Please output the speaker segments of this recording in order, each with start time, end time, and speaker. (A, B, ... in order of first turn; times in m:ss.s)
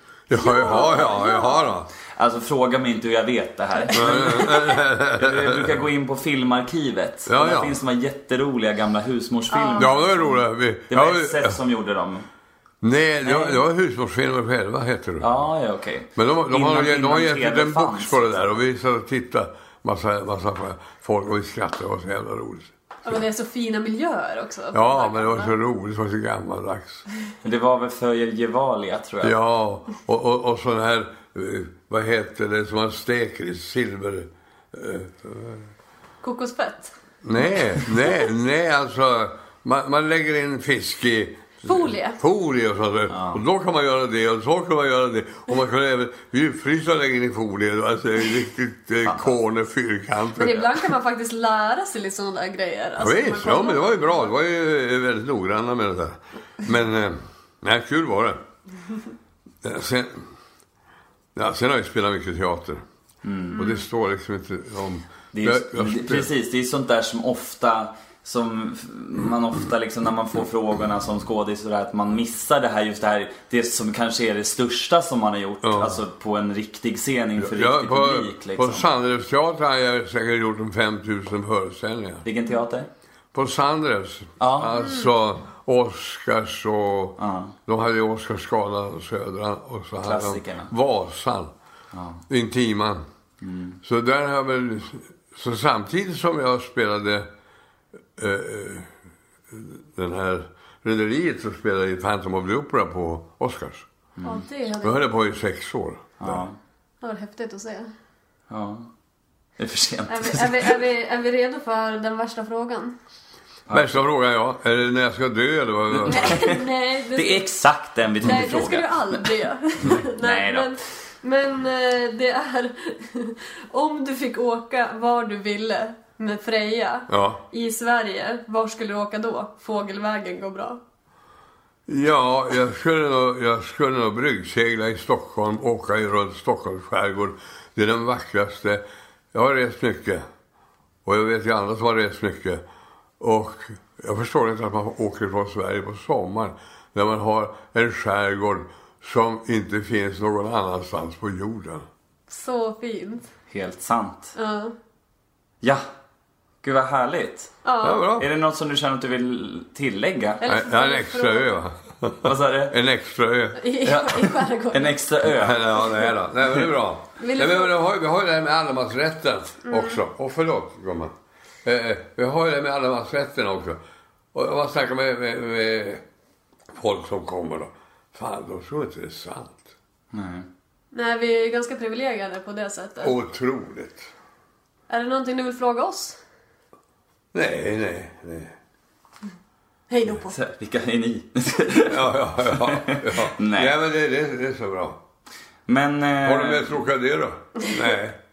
0:00.3-0:01.9 A
0:00.3-0:01.6 B
0:02.1-0:10.0 C
0:03.9-0:05.8 A
0:07.3-0:07.8 A
0:09.5-0:10.4 B
0:09.8-0:11.6 A
0:10.9-0:12.3 C
0:12.8-0:15.4 A
0:13.2-0:13.6 C
0:15.2-0:18.6 C
0:16.2-0:22.7 A
0:23.0-0:25.6 B
0:24.7-0:27.0 A
0:27.4-0:29.4 C
0:29.2-0:35.7 A
0:36.2-0:36.9 B
0:37.2-0:50.7 A
0:41.7-0:42.2 B
0:43.1-0:43.4 C
0:50.4-0:54.3 B
0:53.0-0:58.4 A
0:59.6-1:00.2 A
1:01.4-1:02.8 A
1:03.2-1:03.6 C
1:03.6-1:06.3 A
1:05.3-1:18.8 C
1:15.6-1:16.0 A
1:17.4-1:22.2 A
1:22.2-1:22.9 C
1:23.3-1:31.5 A
1:24.4-1:24.8 C
1:27.2-1:27.5 C
1:30.0-1:30.7 C
1:31.9-1:32.2 C
1:32.3-1:33.0 A
1:33.4-1:33.8 C
1:33.8-1:37.3 A
1:38.2-1:38.9 A
1:39.5-1:43.9 A
1:44.2-1:44.4 C
1:44.2-1:45.0 B
1:44.8-1:46.4 A
1:46.2-1:46.6 C
1:47.0-1:47.9 B
1:48.5-1:48.9 C
1:49.6-1:50.8 C
1:50.1-1:53.0 B
1:53.7-1:54.0 C
1:53.7-1:56.4 A
1:56.0-2:00.7 C
1:56.1-1:57.5 B
1:58.2-2:10.8 B
2:07.1-2:07.4 A
2:11.9-2:18.8 A
2:19.3-2:20.2 A
2:21.0-2:22.6 A
2:23.2-2:31.9 A
2:32.3-2:33.3 B
2:33.5-2:34.4 C
2:34.4-2:34.8 B
2:36.6-2:37.6 C
2:37.6-2:38.0 B
2:37.8-2:38.3 A
2:38.2-2:40.4 C
2:40.4-2:41.6 B
2:40.5-2:43.6 A
2:42.2-2:42.8 C
2:43.6-2:45.0 B
2:43.9-2:45.8 C
2:45.3-2:51.1 A
2:47.2-2:47.8 B
2:49.7-2:50.0 B
2:51.6-2:53.8 A
2:54.3-2:56.0 A
2:56.7-2:59.7 A
3:00.1-3:00.5 C
3:00.9-3:03.2 B
3:03.0-3:04.1 A
3:04.9-3:06.2 B
3:07.3-3:08.5 A
3:09.9-3:10.4 B
3:10.3-3:13.7 C
3:11.8-3:15.0 A
3:15.7-3:16.8 C
3:16.2-3:18.2 A